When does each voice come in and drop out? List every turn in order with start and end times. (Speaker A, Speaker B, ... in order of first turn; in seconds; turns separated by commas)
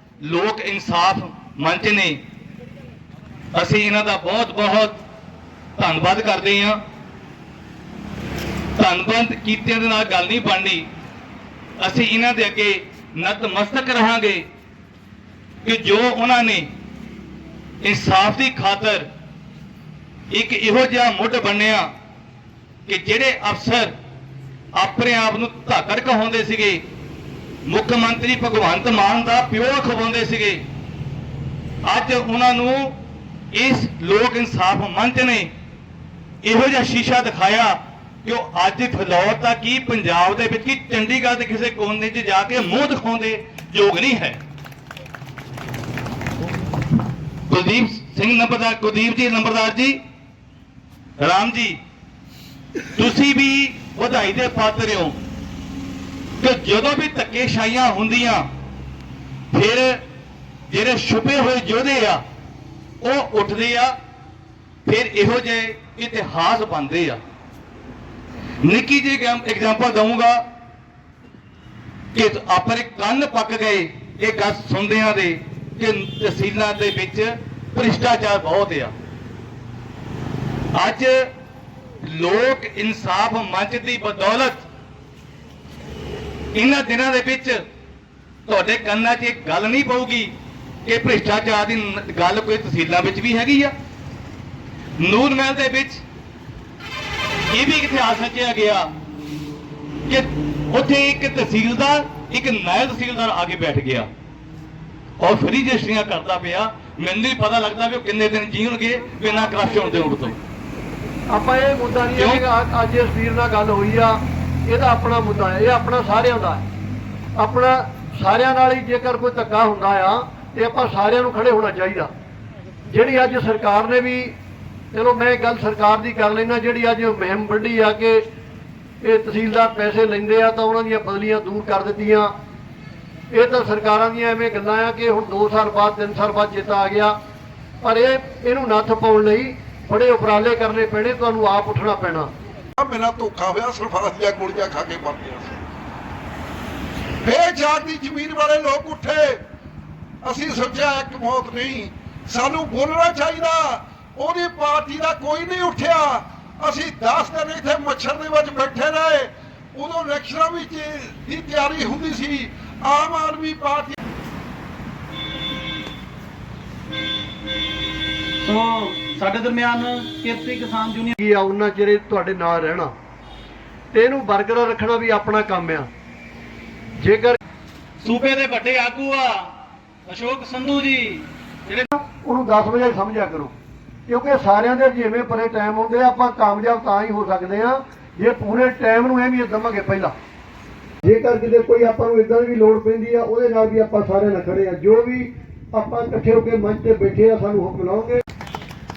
Speaker A: 0.2-2.2, Speaker A: 3.5-5.0, Speaker A: 5.8-6.8, Speaker A: 8.8-10.9, Speaker A: 11.8-14.4, Speaker A: 15.6-16.7, Speaker A: 17.8-19.1, Speaker A: 20.3-21.9, Speaker A: 22.9-23.9, Speaker A: 24.7-26.8, Speaker A: 27.6-30.6, Speaker A: 31.8-32.9, Speaker A: 33.5-35.5, Speaker A: 36.4-44.4, Speaker A: 47.5-50.0, Speaker A: 51.2-51.8, Speaker A: 52.9-55.2, Speaker A: 56.4-58.5, Speaker A: 59.5-60.0, Speaker A: 60.7-62.2, Speaker A: 63.0-63.9, Speaker A: 64.8-67.2, Speaker A: 68.6-70.4, Speaker A: 72.1-78.9, Speaker A: 80.7-81.2, Speaker A: 82.0-84.6, Speaker A: 86.5-87.6, Speaker A: 88.5-90.3, Speaker A: 90.8-93.7, Speaker A: 95.0-96.0, Speaker A: 97.5-98.9, Speaker A: 100.1-104.1, Speaker A: 105.2-110.4, Speaker B: 111.3-116.7, Speaker A: 112.1-112.4, Speaker B: 117.4-122.1, Speaker B: 122.9-124.3, Speaker B: 124.9-128.2, Speaker B: 129.0-132.3, Speaker B: 133.3-137.1, Speaker B: 137.8-142.3, Speaker C: 142.8-145.5, Speaker C: 147.2-149.4, Speaker C: 150.2-163.9, Speaker D: 168.4-171.2, Speaker B: 171.2-172.9, Speaker B: 173.9-175.9, Speaker B: 177.0-177.4, Speaker D: 178.0-179.5, Speaker D: 180.1-181.9, Speaker B: 181.9-183.5, Speaker B: 184.1-190.1, Speaker B: 191.0-198.2